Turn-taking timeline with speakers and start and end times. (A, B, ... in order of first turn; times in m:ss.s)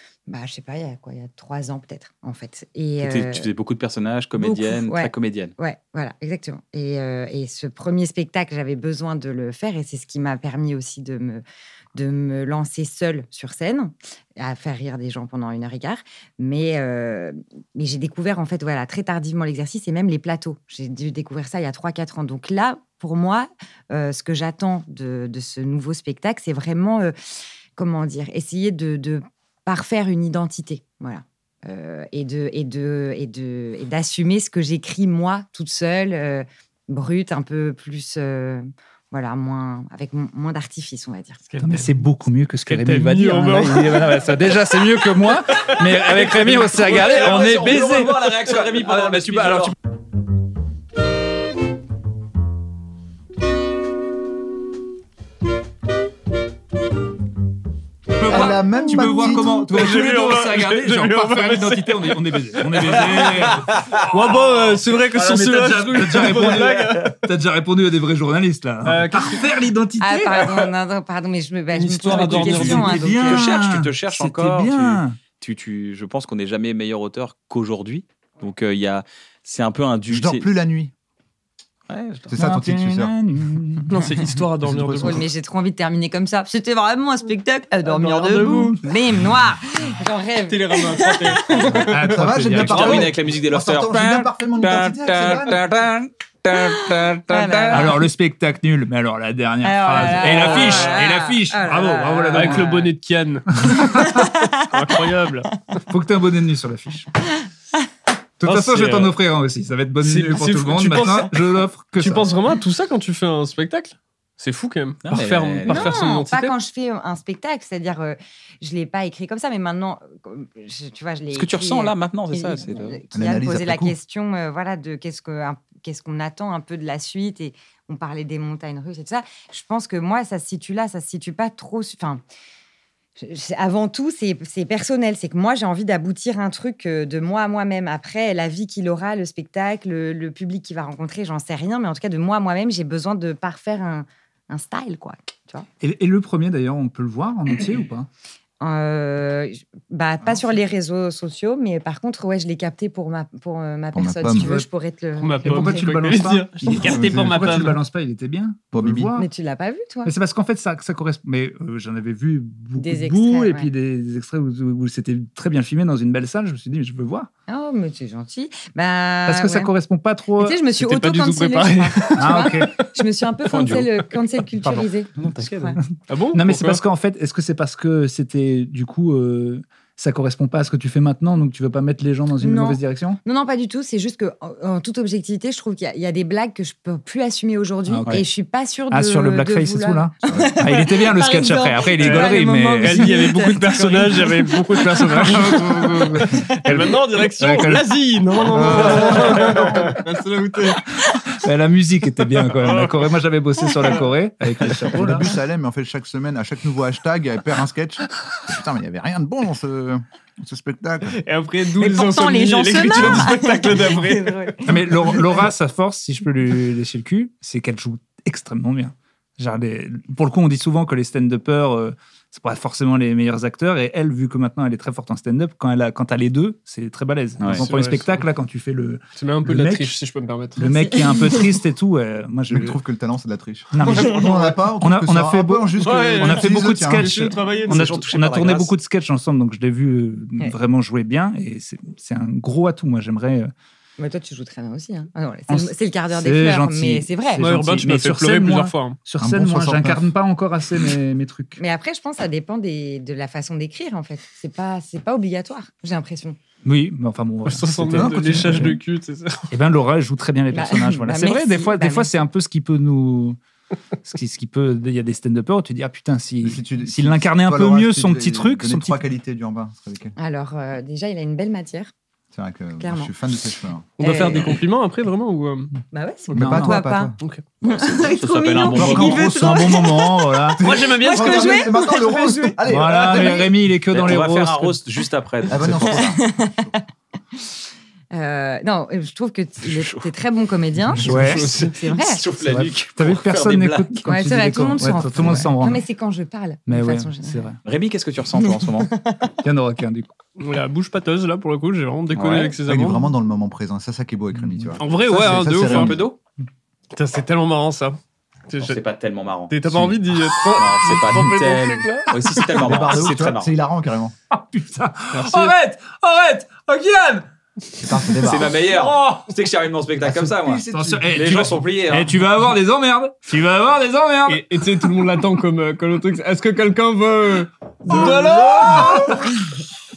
0:00.3-0:03.5 A
0:03.0-0:05.5 B
0:04.4-0:11.4 A
0:12.0-0:27.1 A
0:27.8-0:41.4 A
0:41.5-0:42.0 C
0:41.6-0:49.7 D
0:42.7-0:44.5 C
0:45.7-0:47.5 C
0:46.8-0:49.7 B
0:58.2-1:04.6 D
0:58.2-0:59.7 E
0:58.3-1:07.2 C
1:05.1-1:10.7 D
1:08.8-1:09.5 C
1:10.0-1:13.5 A
1:11.7-1:13.1 C
1:12.1-1:15.2 D
1:13.2-1:20.5 B
1:20.1-1:20.9 E
1:21.9-1:22.3 B
1:22.3-1:23.2 E
1:22.4-1:24.4 D
1:23.9-1:25.2 C
1:24.6-1:25.2 E
1:25.0-1:31.8 A
1:27.8-1:28.8 C
1:30.5-1:33.1 C
1:31.8-1:33.1 D
1:32.0-1:35.7 E
1:32.6-1:38.0 B
1:37.3-1:38.0 A
1:37.7-1:42.8 D
1:39.6-1:42.8 A
1:40.2-1:41.0 C
1:42.3-1:43.9 C
1:43.6-1:44.3 D
1:43.9-1:44.6 A
1:44.6-1:45.6 C
1:45.9-1:47.1 D
1:48.4-1:52.3 D
1:48.4-1:49.2 C
1:50.0-1:56.6 C
1:55.0-1:56.0 B
1:55.7-2:12.2 A
2:01.4-2:03.0 B
2:03.1-2:04.0 E
2:13.2-2:25.7 A
2:25.8-2:28.1 D
2:28.6-2:35.8 A
2:34.0-2:34.5 E
2:34.3-2:34.6 D
2:35.2-2:37.8 C
2:35.4-2:39.3 D
2:36.8-2:37.6 E
2:38.7-2:39.1 E
2:39.2-2:40.1 A
2:40.0-2:47.3 D
2:42.8-2:43.7 A
2:47.5-2:49.7 A
2:49.3-2:50.6 D
2:50.4-2:55.8 A
2:50.7-2:52.6 C
2:52.2-2:52.7 D
2:53.5-2:53.9 B
2:54.7-2:55.8 B
2:56.1-2:56.8 C
2:56.3-3:03.2 D
3:02.4-3:15.5 A
3:07.9-3:08.3 D
3:08.9-3:13.2 D
3:10.3-3:10.5 E
3:12.0-3:20.8 C
3:15.1-3:20.0 D
3:21.3-3:25.3 D
3:22.5-3:23.1 C
3:23.8-3:24.1 C
3:24.9-3:31.2 E
3:31.1-3:34.6 C
3:31.8-3:35.4 A
3:34.6-3:49.9 D
3:47.4-3:47.7 B
3:47.5-3:48.2 C
3:49.2-3:50.6 C
3:50.6-3:52.8 D
3:50.6-3:51.4 A
3:52.5-3:57.1 E
3:53.7-4:03.5 D
3:53.8-3:54.6 C
3:55.8-3:58.0 C
3:57.7-3:58.7 B
4:04.0-4:07.4 A
4:05.5-4:11.6 D
4:07.4-4:09.0 C
4:09.2-4:10.1 E
4:11.6-4:16.4 A
4:16.6-4:18.8 D
4:17.5-4:19.5 C
4:19.5-4:23.4 D
4:20.5-4:22.1 A
4:24.0-4:29.0 D
4:26.4-4:30.2 E
4:30.2-4:31.9 A
4:32.3-4:33.9 E
4:32.8-4:33.1 A
4:34.0-4:35.7 C
4:34.0-4:34.5 A
4:35.9-4:43.4 A
4:36.3-4:37.2 E
4:36.4-4:36.8 D
4:37.2-4:37.4 C
4:37.6-4:39.3 B
4:38.7-4:39.8 E
4:38.8-4:40.6 D
4:40.6-4:41.9 C
4:40.6-4:43.5 E
4:42.7-4:44.8 D
4:43.9-4:46.2 B
4:45.5-4:46.7 E
4:45.9-4:46.8 A
4:48.1-4:52.2 A
4:49.7-4:50.1 B
4:51.0-4:51.7 D
4:51.0-4:51.8 C
4:52.0-4:54.0 B
4:52.4-4:55.9 D
4:54.0-4:57.5 A
4:54.9-4:55.5 E
4:56.7-4:57.6 D
4:57.6-4:58.9 B
4:58.4-4:59.3 A
4:59.4-5:00.1 D
5:00.4-5:03.1 C
5:02.1-5:02.6 B
5:02.6-5:06.0 E
5:04.4-5:04.8 D
5:04.8-5:06.1 C
5:05.4-5:06.2 B
5:06.9-5:08.0 C
5:08.5-5:08.8 C
5:08.6-5:09.8 B
5:09.5-5:12.5 C
5:10.5-5:13.5 B
5:12.6-5:14.1 E
5:14.3-5:17.3 D
5:15.1-5:15.5 C
5:17.8-5:18.6 E
5:18.2-5:22.2 B
5:18.7-5:19.3 D
5:20.0-5:21.5 E
5:20.7-5:24.6 D
5:24.3-5:29.2 C
5:27.9-5:29.3 D
5:27.9-5:29.0 E